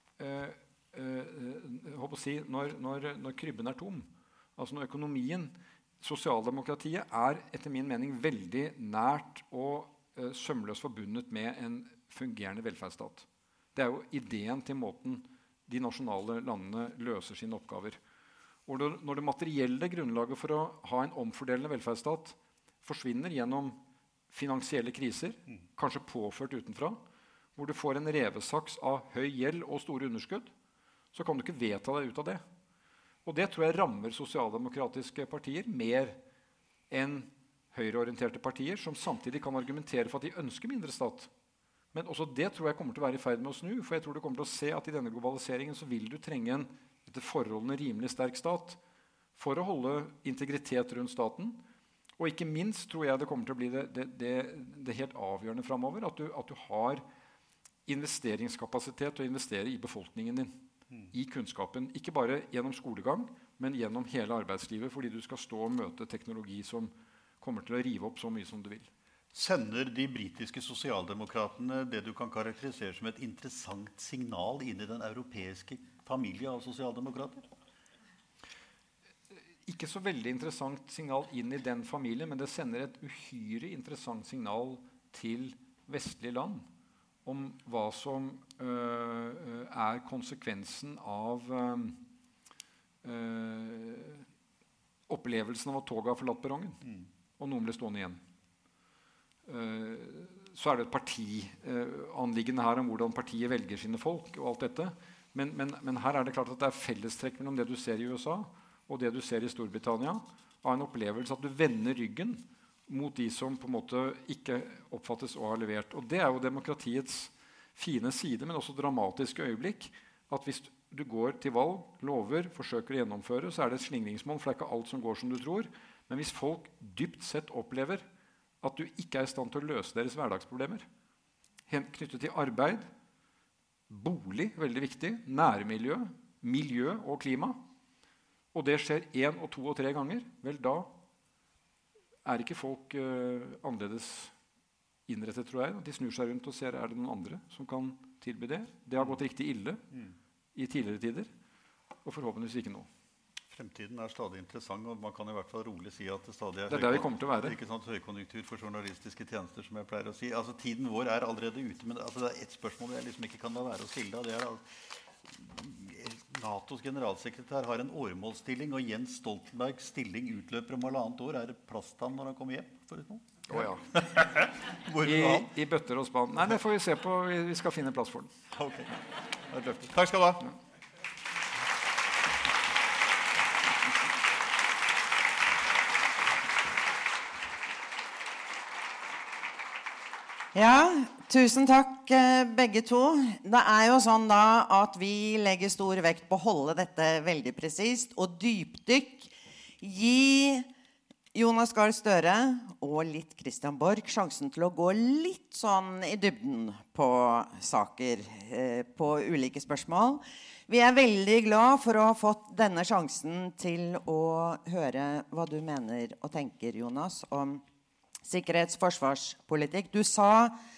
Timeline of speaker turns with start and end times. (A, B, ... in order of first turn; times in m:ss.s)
0:00.2-0:18.0 A
0:18.7-0:23.8 A
0:24.3-0:27.0 A
0:27.6-0:30.5 A
0:31.1-0:32.4 A
0:33.2-0:36.2 A
0:36.9-0:41.3 A
0:41.9-0:48.8 A
0:49.3-0:51.6 A
0:52.2-0:57.0 A
0:57.8-1:00.6 A
1:01.1-1:08.9 A
1:09.3-1:17.4 B
1:19.6-1:26.6 A
1:27.2-1:32.0 A
1:33.0-1:34.2 A
1:35.1-1:36.8 A
1:37.4-1:38.2 A
1:39.4-2:08.0 A
2:08.6-2:10.8 A
2:11.7-2:12.9 A
2:13.9-2:17.6 A
2:18.5-2:20.9 A
2:22.2-2:24.3 A
2:25.1-2:29.8 A
2:30.5-2:31.3 A
2:32.0-2:32.9 A
2:33.5-2:44.6 B
2:36.7-2:37.6 A
2:45.2-2:55.5 B
2:53.5-2:53.9 A
2:55.0-2:58.3 A
2:58.5-3:00.5 B
3:10.5-3:20.7 C
3:21.3-3:37.6 C
3:38.2-3:40.6 C